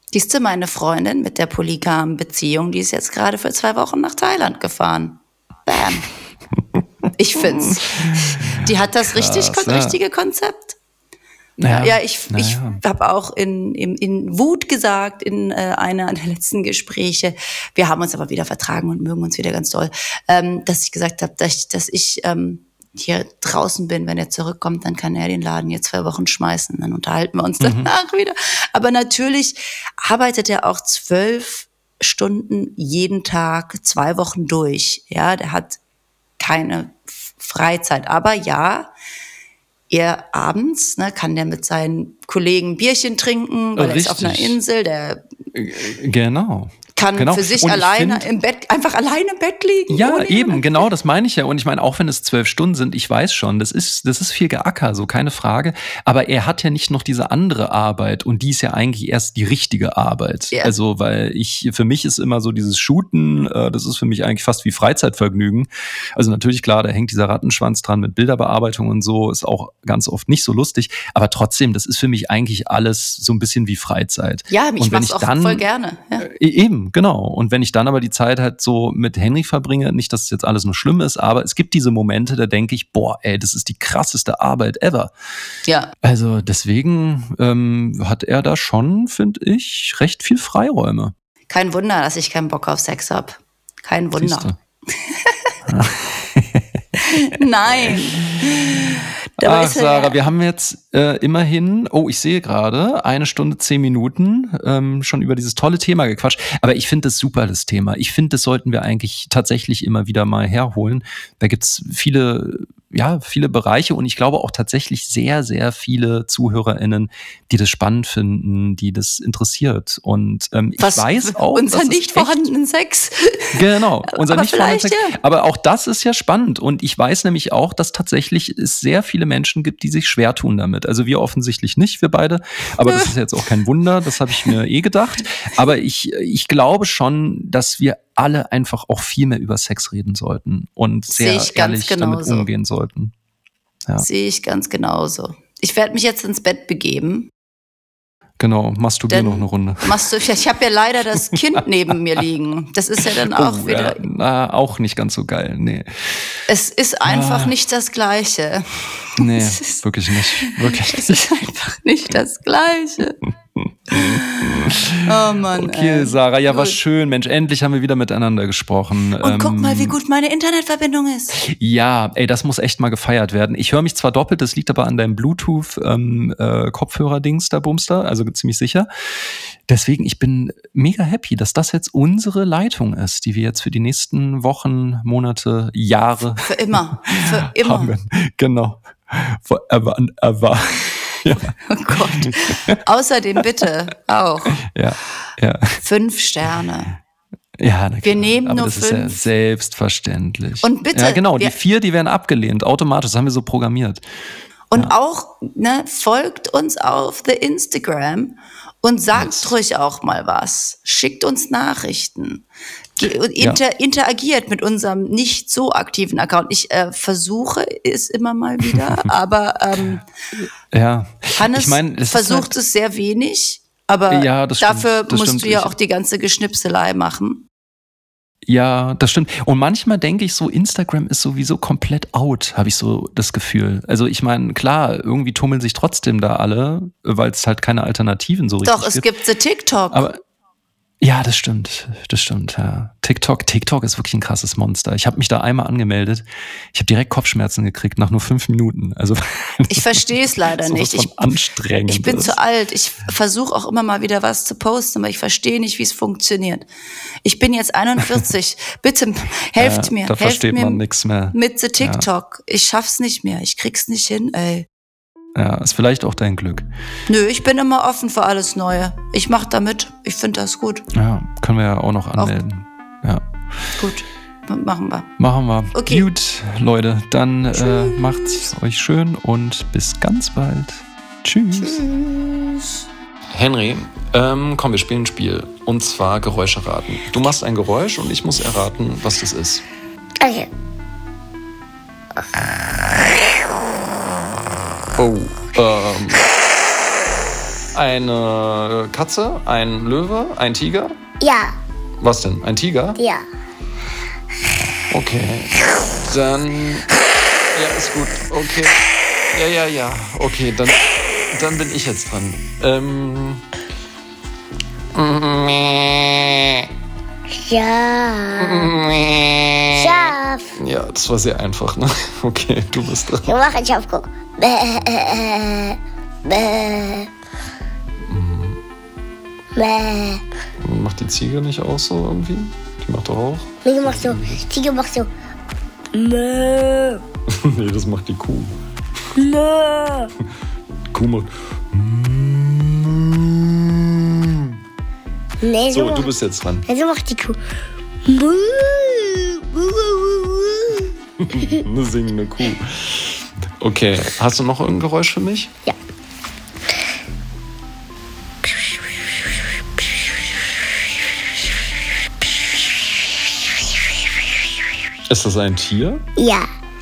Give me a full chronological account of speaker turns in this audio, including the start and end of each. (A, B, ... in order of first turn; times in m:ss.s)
0:00.1-0:06.1 A
0:07.2-0:10.8 A
0:07.6-0:10.0 B
0:11.6-0:12.8 B
0:11.7-0:35.8 A
0:27.6-0:27.9 B
0:36.4-0:38.9 A
0:39.9-0:45.2 A
0:43.8-0:44.6 B
0:45.5-0:48.3 B
0:47.0-0:50.8 A
0:49.9-1:15.6 B
1:14.5-1:16.3 A
1:16.2-1:25.1 B
1:25.6-1:25.9 A
1:26.0-1:31.1 B
1:31.5-1:35.5 A
1:34.2-1:34.6 B
1:35.7-1:36.8 B
1:37.0-1:40.2 A
1:37.7-2:02.5 B
2:00.8-2:05.2 A
2:03.5-2:23.1 B
2:12.8-2:13.1 A
2:21.1-2:22.5 A
2:24.0-2:27.3 A
2:28.4-2:30.0 B
2:29.1-2:34.0 A
2:33.0-2:36.3 B
2:36.5-2:43.2 A
2:37.0-2:37.5 B
2:39.2-2:41.2 B
2:43.6-2:49.9 B
2:43.9-2:46.8 A
2:49.2-2:51.4 A
2:51.4-2:58.9 B
2:59.7-3:06.6 B
3:06.4-3:08.0 A
3:07.1-3:12.8 B
3:11.6-3:14.6 A
3:14.6-3:15.8 B
3:15.8-3:17.0 A
3:17.6-3:24.0 B
3:18.0-3:19.2 A
3:20.6-3:21.5 A
3:24.7-3:32.4 A
3:29.1-3:29.5 B
3:33.0-3:40.0 A
3:33.0-3:33.6 B
3:40.4-3:42.6 B
3:41.3-3:47.5 A
3:44.1-3:45.7 B
3:48.5-3:59.0 B
3:58.6-4:00.1 A
3:59.9-4:00.2 B
4:01.0-4:12.4 B
4:09.7-4:11.1 A
4:11.9-4:16.7 A
4:17.2-4:24.7 A
4:19.6-4:22.1 B
4:25.3-4:26.7 B
4:27.1-4:30.8 A
4:30.9-4:33.3 B
4:33.8-4:35.1 A
4:35.2-4:41.8 B
4:35.7-4:36.1 A
4:37.6-4:38.4 A
4:43.3-4:49.6 B
4:50.2-4:50.5 C
4:54.9-4:56.3 B
4:57.7-5:01.0 B
5:01.2-5:01.5 C
5:02.0-5:03.0 B
5:03.0-5:03.2 C
5:04.9-5:06.9 B
5:07.5-5:13.4 B
5:14.9-5:16.7 B
5:17.4-5:18.7 C
5:18.4-5:23.4 B
5:19.7-5:20.4 C
5:23.2-5:27.1 C
5:28.1-5:28.6 B
5:29.5-5:30.2 C
5:30.6-5:34.4 B
5:33.6-5:35.1 C
5:35.9-5:37.0 C
5:37.3-5:38.5 B
5:39.2-5:40.1 C
5:40.9-5:44.6 B
5:45.4-5:46.1 C
5:45.7-5:46.6 B
5:46.7-5:47.4 C
5:48.0-5:50.9 C
5:51.2-5:55.5 B
6:05.1-6:06.0 B
6:06.2-6:06.5 C